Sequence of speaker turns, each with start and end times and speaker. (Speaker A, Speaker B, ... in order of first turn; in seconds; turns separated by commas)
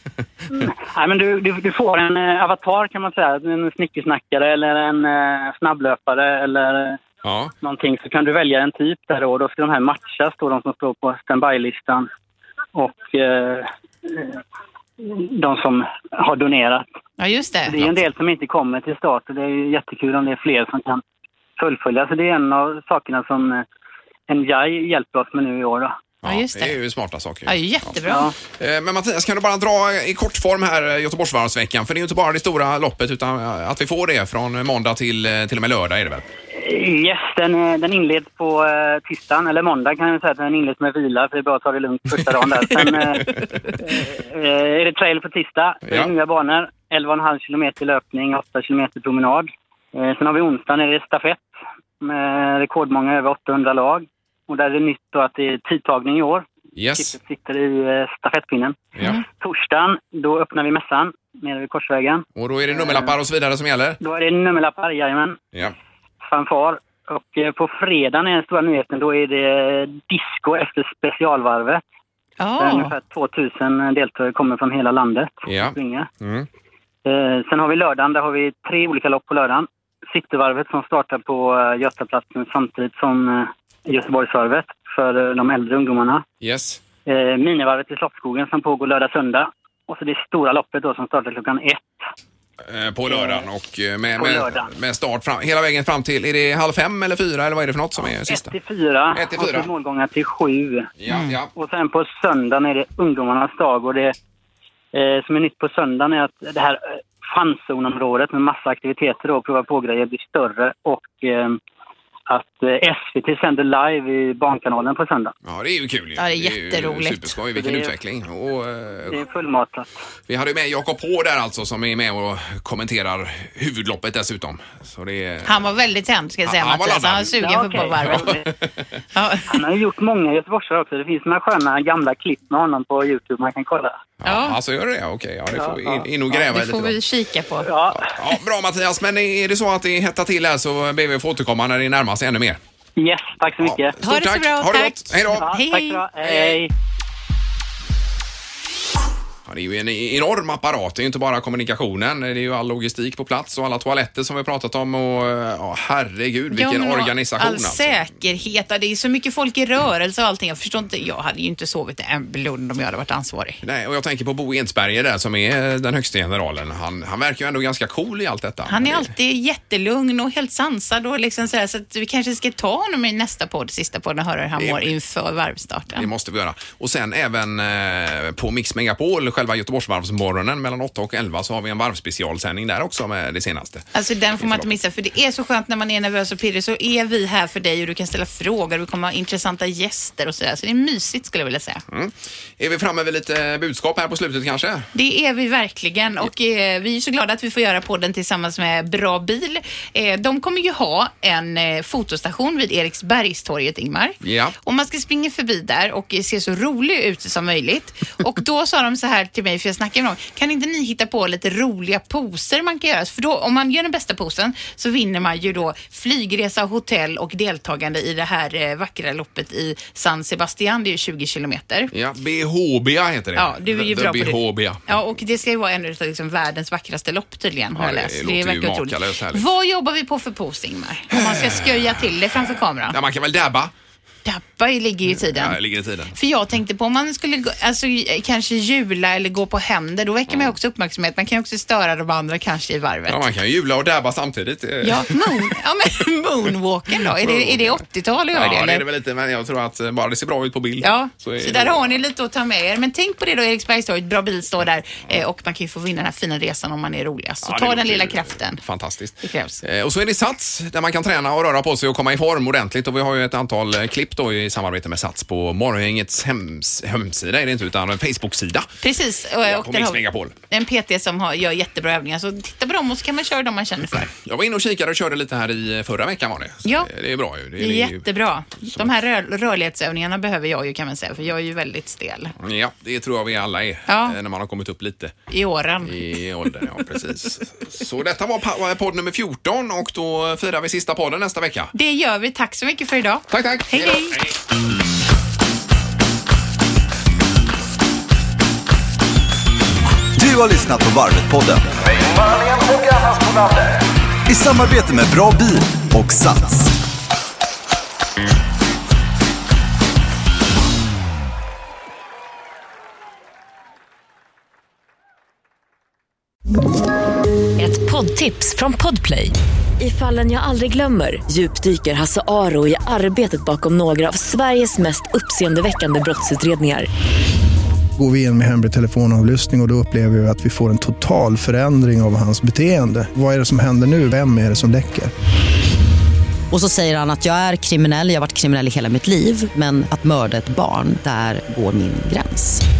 Speaker A: 0.5-7.0, Speaker B: 7.2-7.5, Speaker A: 7.6-12.1, Speaker A: 12.7-14.4, Speaker A: 15.0-16.8, Speaker C: 17.2-17.8, Speaker A: 17.6-21.0, Speaker A: 21.6-23.6, Speaker A: 24.3-26.0, Speaker B: 26.2-27.6, Speaker C: 26.2-26.8, Speaker C: 27.4-28.3, Speaker A: 28.0-28.3, Speaker B: 28.5-36.2, Speaker A: 36.5-63.1, Speaker B: 42.8-43.4, Speaker B: 45.9-46.1, Speaker B: 56.8-57.1, Speaker B: 62.4-64.0, Speaker A: 64.0-65.4, Speaker A: 66.2-71.8, Speaker C: 72.4-72.9, Speaker A: 72.6-76.1, Speaker B: 75.5-76.5, Speaker A: 77.0-86.2, Speaker B: 86.4-86.8, Speaker A: 87.0-91.9, Speaker B: 92.6-98.5, Speaker A: 93.1-93.5, Speaker A: 94.2-94.7, Speaker A: 98.2-101.0, Speaker B: 99.1-99.7, Speaker B: 101.0-101.5, Speaker C: 101.1-101.3, Speaker A: 101.5-104.1, Speaker A: 104.9-111.6, Speaker A: 112.3-115.3, Speaker B: 115.4-119.2, Speaker C: 116.2-117.3, Speaker A: 117.5-117.9, Speaker A: 119.1-119.9, Speaker B: 120.3-125.7, Speaker C: 125.4-128.4, Speaker B: 126.4-127.3, Speaker A: 127.4-128.3, Speaker B: 128.0-128.7, Speaker C: 129.1-129.6, Speaker A: 129.5-134.0, Speaker B: 134.2-137.0, Speaker C: 134.2-134.6, Speaker A: 135.5-136.1, Speaker C: 136.3-137.7, Speaker A: 137.6-138.2, Speaker B: 137.9-142.6, Speaker A: 143.0-144.0, Speaker B: 143.6-145.5, Speaker C: 144.0-146.0, Speaker A: 145.3-146.7, Speaker B: 149.4-158.0, Speaker C: 156.5-163.6, Speaker B: 163.6-169.1, Speaker C: 168.7-176.1, Speaker B: 174.6-174.9, Speaker B: 175.9-183.9, Speaker C: 183.9-191.8, Speaker B: 184.4-184.7, Speaker B: 191.9-194.9, Speaker C: 194.9-221.9, Speaker B: 204.2-204.6, Speaker B: 221.9-224.9, Speaker C: 223.3-233.0, Speaker B: 227.7-229.4, Speaker B: 231.1-233.7, Speaker C: 234.2-235.6, Speaker B: 235.1-236.2, Speaker C: 236.1-243.2, Speaker B: 240.3-240.6, Speaker B: 243.1-245.5, Speaker C: 244.8-248.8, Speaker B: 247.0-252.0, Speaker C: 250.8-258.6, Speaker B: 257.4-268.7, Speaker C: 259.2-259.6, Speaker C: 268.8-274.1, Speaker B: 269.4-270.3, Speaker B: 274.0-278.1, Speaker C: 276.6-276.9, Speaker C: 277.6-282.3, Speaker B: 278.6-278.9, Speaker B: 282.4-285.1, Speaker C: 283.9-284.2, Speaker C: 285.3-285.9, Speaker B: 285.8-291.7, Speaker C: 291.7-294.2, Speaker B: 293.3-294.3, Speaker D: 300.1-303.6, Speaker D: 304.3-306.7, Speaker E: 317.6-326.9, Speaker F: 328.0-335.1, Speaker G: 336.5-342.6